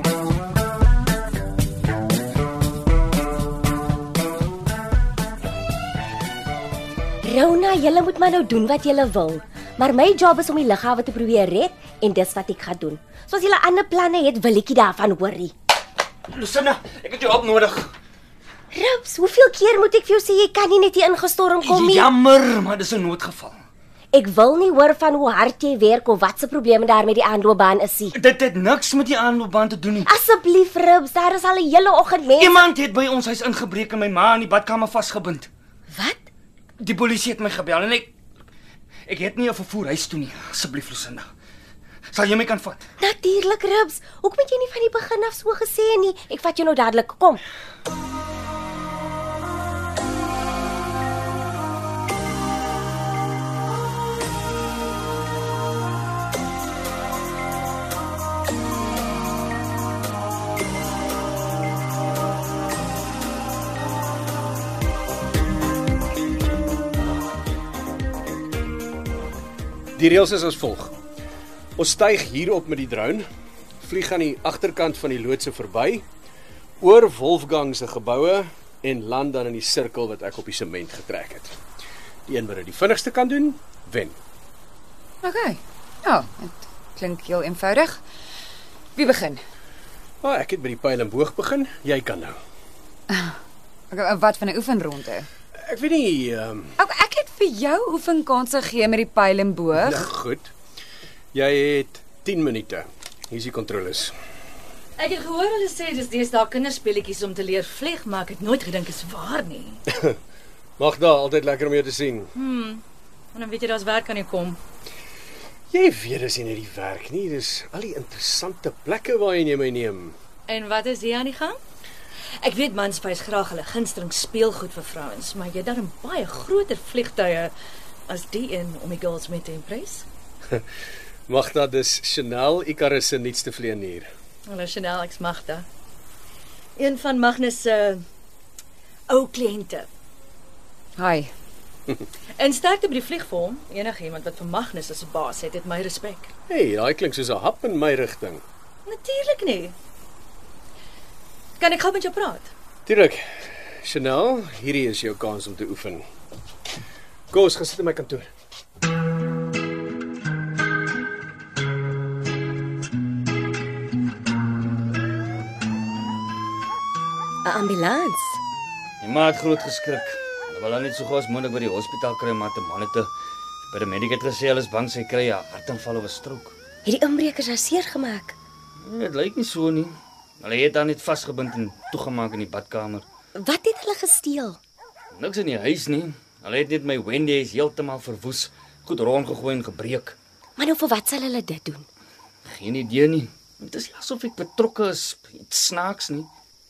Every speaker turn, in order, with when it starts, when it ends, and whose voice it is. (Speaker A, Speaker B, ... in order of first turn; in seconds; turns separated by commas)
Speaker A: 7.2-15.5, Speaker B: 16.3-17.9, Speaker A: 18.7-22.1, Speaker B: 21.6-23.6, Speaker A: 24.1-28.2, Speaker B: 28.1-30.1, Speaker A: 30.0-32.6, Speaker B: 32.4-35.5, Speaker A: 35.9-36.3, Speaker B: 36.8-38.1, Speaker B: 39.1-41.3, Speaker B: 42.1-42.9, Speaker A: 43.0-47.4, Speaker C: 70.0-70.9, Speaker C: 71.8-73.3, Speaker C: 73.8-76.0, Speaker C: 76.8-81.5, Speaker C: 82.3-84.2, Speaker D: 85.2-88.0, Speaker D: 89.0-89.4, Speaker C: 90.2-92.4, Speaker D: 93.1-93.3, Speaker D: 93.9-95.3, Speaker C: 95.6-96.7, Speaker D: 96.8-100.1, Speaker C: 99.7-100.5, Speaker C: 101.3-104.1, Speaker E: 105.0-109.8, Speaker C: 110.8-112.3, Speaker E: 112.3-112.8, Speaker E: 113.3-114.6, Speaker C: 115.7-120.2, Speaker E: 120.5-121.6, Speaker E: 122.4-127.5, Speaker E: 128.1-130.1, Speaker C: 131.3-134.1, Speaker E: 134.5-135.7, Speaker E: 136.8-138.0, Speaker E: 139.1-139.9, Speaker D: 141.0-141.3, Speaker E: 142.4-146.3, Speaker C: 146.5-148.4, Speaker E: 148.8-149.8, Speaker E: 151.6-152.5, Speaker C: 152.8-153.2, Speaker C: 153.8-156.0, Speaker C: 157.3-158.3, Speaker A: 167.4-168.4, Speaker B: 169.0-173.1, Speaker B: 173.7-176.5, Speaker A: 176.8-178.4, Speaker B: 178.8-183.0, Speaker A: 183.4-184.6, Speaker B: 185.1-190.2, Speaker A: 190.6-191.9, Speaker B: 192.4-196.3